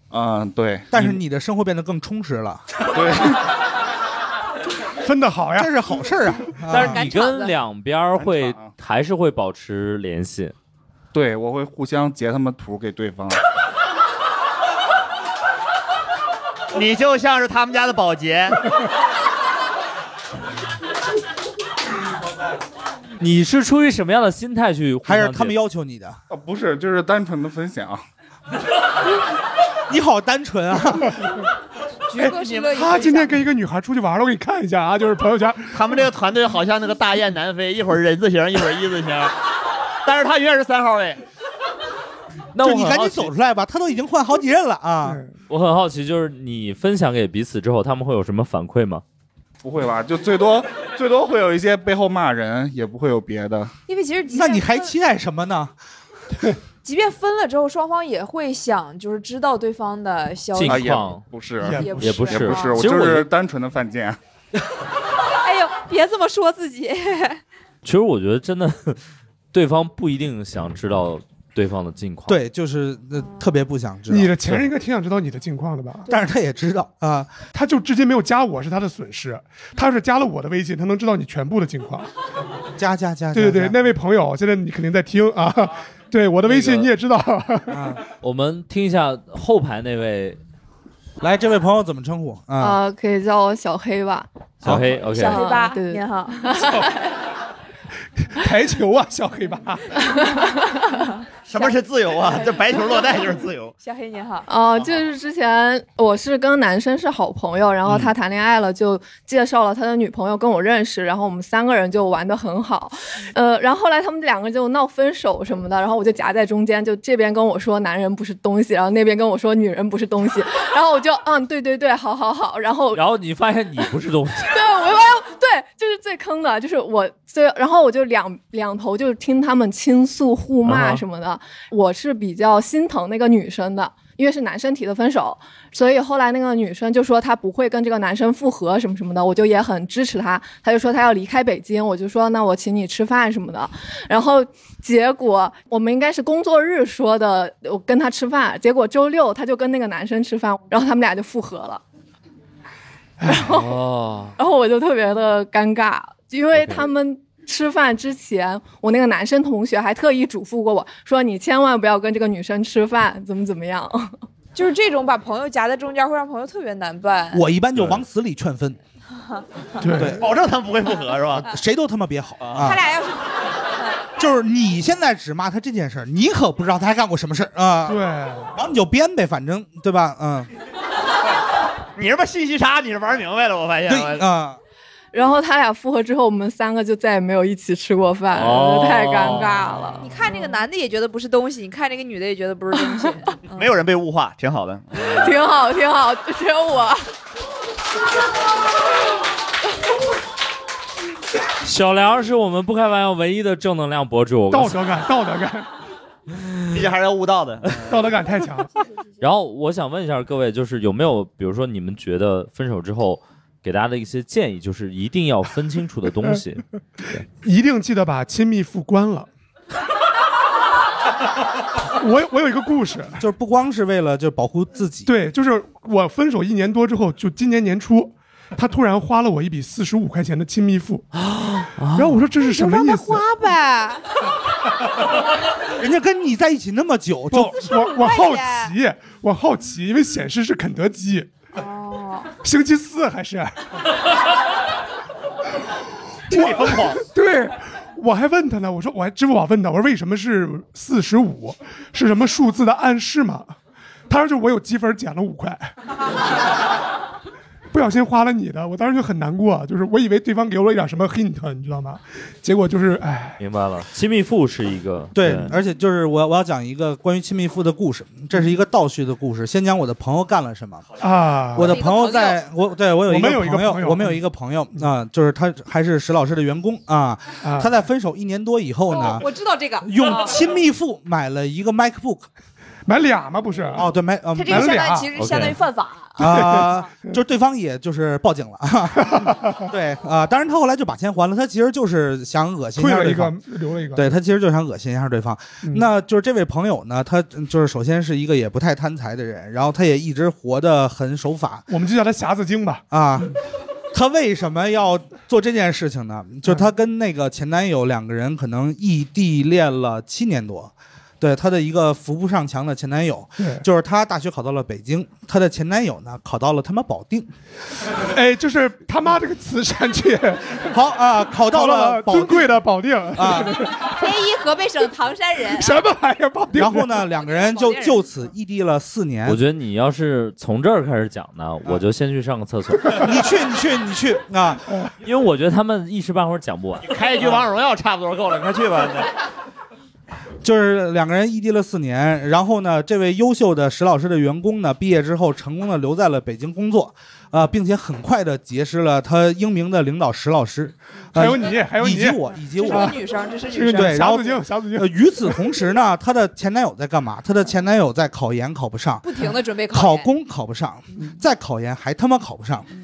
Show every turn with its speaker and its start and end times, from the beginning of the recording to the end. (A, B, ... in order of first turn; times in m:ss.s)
0:00.1-0:01.2 A
0:00.9-0:02.6 B
0:02.9-0:03.4 A
0:05.0-0:05.7 C
0:05.6-0:07.0 B
0:06.7-0:10.5 D
0:06.7-0:07.5 E
0:08.2-0:08.7 A
0:11.1-0:13.4 A
0:16.7-0:18.7 F
0:23.2-0:25.5 D
0:25.0-0:26.2 B
0:26.3-0:28.0 A
0:29.9-0:31.2 B
0:32.1-0:33.4 E
0:32.2-0:35.8 C
0:35.7-0:39.4 F
0:40.0-0:41.2 F
0:42.5-0:43.3 D
0:42.6-0:45.2 B
0:45.5-0:49.0 D
0:49.6-0:53.7 A
0:53.9-0:54.9 E
0:54.3-0:55.7 B
0:56.8-1:01.1 E
1:00.5-1:01.2 D
1:00.7-1:04.2 A
1:01.6-1:02.4 C
1:01.7-1:02.8 E
1:02.0-1:03.3 D
1:05.4-1:07.4 E
1:07.8-1:09.0 D
1:09.5-1:12.4 D
1:12.3-1:14.6 B
1:14.1-1:16.1 C
1:16.1-1:17.4 B
1:17.5-1:22.1 C
1:22.8-1:23.8 B
1:23.3-1:27.9 C
1:26.4-1:26.9 D
1:27.7-1:28.0 B
1:28.2-1:30.4 D
1:31.2-1:32.8 B
1:32.6-1:34.3 G
1:34.6-1:35.6 D
1:34.6-1:34.9 B
1:35.0-1:37.0 E
1:35.2-1:36.8 G
1:38.2-1:40.0 C
1:40.0-1:40.8 G
1:41.5-1:43.7 F
1:43.8-1:44.5 E
1:44.5-2:03.0 G
2:02.9-2:04.7 D
2:03.8-2:31.8 G
2:10.6-2:11.0 D
2:33.2-2:33.4 C
2:33.3-2:33.8 G
2:33.4-2:34.4 D
2:34.4-2:44.1 G
2:36.5-2:36.9 D
2:44.5-2:47.5 E
2:47.3-2:48.8 B
2:49.8-2:50.2 C
2:49.9-2:50.2 B
2:50.1-2:51.5 F
2:51.3-2:52.8 B
2:52.4-2:52.8 F
2:52.6-2:53.2 E
2:54.2-2:58.0 B
2:57.9-2:58.5 C
2:58.5-3:00.5 B
3:02.0-3:04.2 F
3:03.9-3:04.6 B
3:05.1-3:10.1 G
3:08.3-3:09.8 D
3:10.0-3:13.6 E
3:13.5-3:15.4 F
3:15.0-3:17.0 G
3:21.6-3:24.8 D
3:24.5-3:25.7 C
3:26.7-3:28.2 F
3:27.9-3:28.7 C
3:29.2-3:36.6 D
3:37.4-3:39.3 C
3:42.0-3:43.2 C
3:43.2-3:45.1 B
3:45.0-3:51.1 C
3:51.1-3:52.2 D
3:51.9-3:53.2 C
3:52.5-3:54.0 E
3:55.8-3:57.6 B
3:57.3-4:01.3 C
3:57.6-3:58.7 E
4:01.5-4:02.3 E
4:02.4-4:03.6 C
4:06.3-4:07.0 F
4:06.3-4:13.6 C
4:14.1-4:15.7 C
4:17.7-4:23.4 C
4:23.4-4:25.6 D
4:25.1-4:30.8 B
4:31.0-4:31.8 C
4:31.5-4:39.3 B
4:31.6-4:32.4 E
4:33.1-4:34.2 C
4:37.4-4:37.7 C
4:38.9-4:40.3 E
4:39.8-4:42.3 B
4:42.8-4:43.9 C
4:43.8-4:44.9 B
4:44.3-4:46.3 E
4:44.5-4:45.1 C
4:45.2-4:45.6 D
4:46.2-4:53.3 B
4:46.2-4:46.8 C
4:49.0-4:49.6 C
4:52.8-4:54.1 C
4:53.9-5:01.7 B
5:01.7-5:02.8 C
5:02.9-5:03.4 B
5:03.9-5:17.3 B
5:18.1-5:20.7 C
5:20.7-5:22.5 B
5:21.5-5:24.0 C
5:23.1-5:23.5 B
5:23.8-5:25.9 E
5:25.5-5:26.9 C
5:26.5-5:29.4 B
5:27.2-5:28.0 E
5:29.2-5:33.1 D
5:33.0-5:34.7 B
5:35.0-5:36.9 D
5:36.8-5:39.1 F
5:40.4-5:53.0 B
5:51.1-5:55.4 C
5:52.6-5:54.4 E
5:53.7-5:59.0 B
5:59.0-6:00.1 E
5:59.7-6:02.7 B